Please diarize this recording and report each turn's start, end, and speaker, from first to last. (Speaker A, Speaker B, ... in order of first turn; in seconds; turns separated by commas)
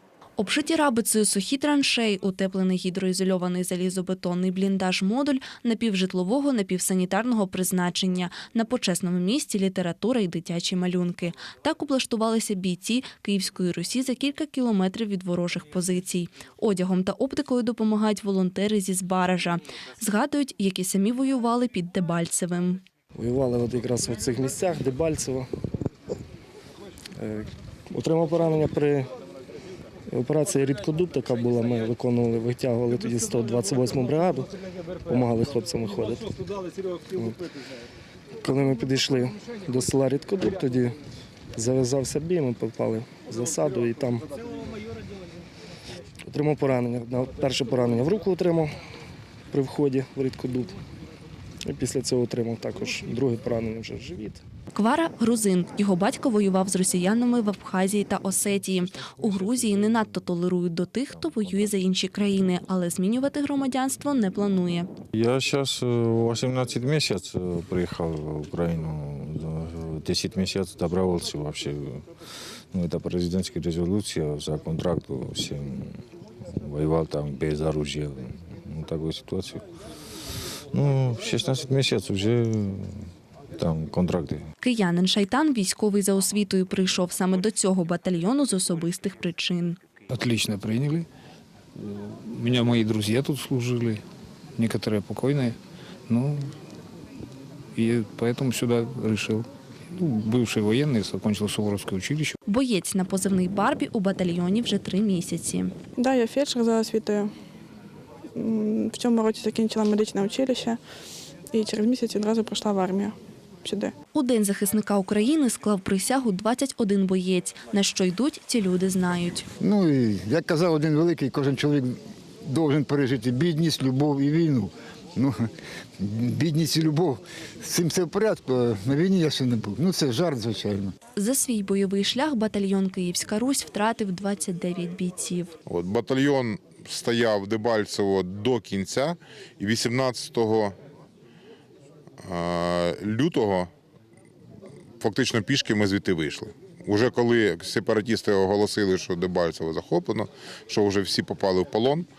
Speaker A: 0.4-22.8, Speaker B: 23.1-25.5, Speaker B: 27.1-29.1, Speaker B: 30.1-34.5, Speaker B: 35.1-36.3, Speaker B: 37.1-37.4, Speaker B: 38.4-41.0, Speaker B: 41.5-44.2, Speaker B: 46.3-48.7, Speaker B: 49.5-50.8, Speaker B: 51.6-54.4, Speaker A: 54.7-64.9, Speaker C: 61.1-61.7, Speaker C: 65.1-72.1, Speaker C: 72.7-76.0, Speaker C: 76.5-79.6, Speaker C: 80.7-83.0, Speaker C: 83.6-84.4, Speaker A: 84.6-89.8, Speaker D: 90.1-91.0, Speaker D: 91.9-94.0, Speaker D: 94.6-95.5, Speaker D: 96.1-96.4, Speaker D: 97.8-99.4, Speaker D: 100.0-102.3, Speaker A: 102.5-105.7, Speaker E: 106.0-107.3, Speaker E: 108.4-110.8, Speaker E: 111.5-113.9, Speaker A: 114.1-119.5, Speaker F: 119.6-125.4, Speaker F: 126.0-130.9, Speaker A: 131.2-135.5, Speaker G: 135.7-140.7, Speaker G: 142.2-143.7, Speaker G: 145.0-152.1